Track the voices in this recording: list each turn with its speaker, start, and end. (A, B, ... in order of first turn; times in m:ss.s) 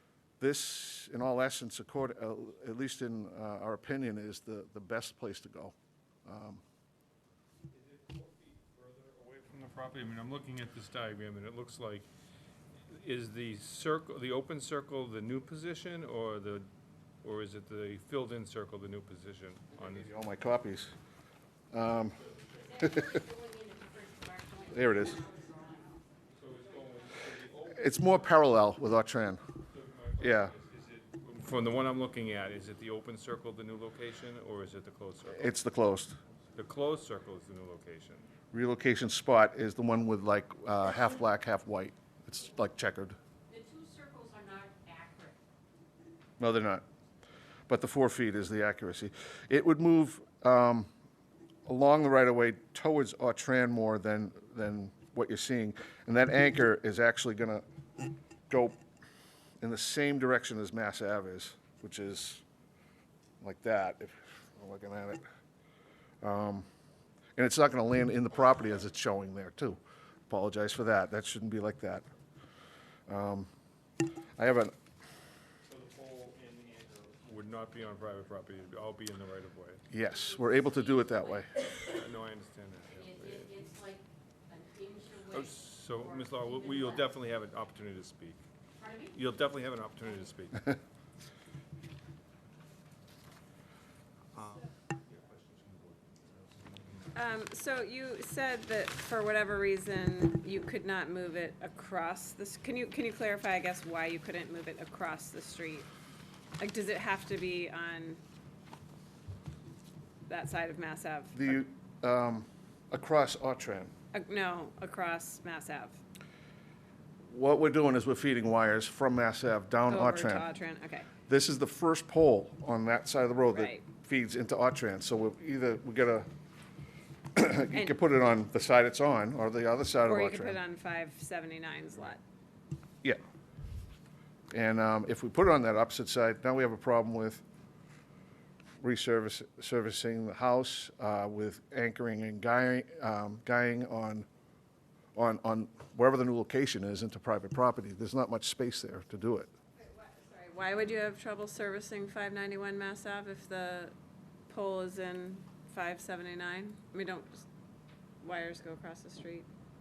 0:00.4-0:05.7 A
0:06.2-0:06.6 A
0:07.7-0:12.1 B
0:12.9-0:16.7 B
0:17.2-0:20.1 B
0:19.8-0:20.9 A
0:21.7-0:22.2 A
0:22.6-0:25.9 C
0:22.8-0:23.1 A
0:24.7-0:25.2 A
0:26.3-0:28.1 B
0:27.7-0:29.4 A
0:29.7-0:35.6 B
0:30.2-0:30.5 A
0:35.3-0:36.2 A
0:36.5-0:38.2 B
0:38.5-0:43.2 A
0:43.5-0:45.3 C
0:46.4-0:46.8 A
0:47.7-0:50.9 A
0:51.6-0:57.6 A
0:58.5-0:58.8 A
0:59.6-1:02.4 A
1:03.4-1:05.2 A
1:06.2-1:06.7 A
1:07.4-1:12.0 A
1:13.1-1:13.5 A
1:14.4-1:14.7 A
1:15.7-1:19.8 B
1:19.9-1:21.5 A
1:21.6-1:23.7 B
1:23.7-1:24.0 C
1:24.5-1:25.2 C
1:25.2-1:28.4 B
1:29.1-1:30.7 B
1:35.4-1:35.8 B
1:37.1-1:45.9 D
1:46.6-1:48.2 D
1:50.3-1:51.6 D
1:51.3-1:53.9 A
1:54.1-1:56.0 D
1:57.3-2:00.5 A
1:59.9-2:01.1 D
2:01.3-2:06.3 A
2:03.5-2:03.8 D
2:07.3-2:10.6 A
2:10.0-2:12.2 D
2:14.5-2:17.4 A
2:18.8-2:24.3 A
2:25.1-2:29.5 A
2:29.8-2:33.9 D
2:34.5-2:37.4 D
2:38.2-2:39.5 D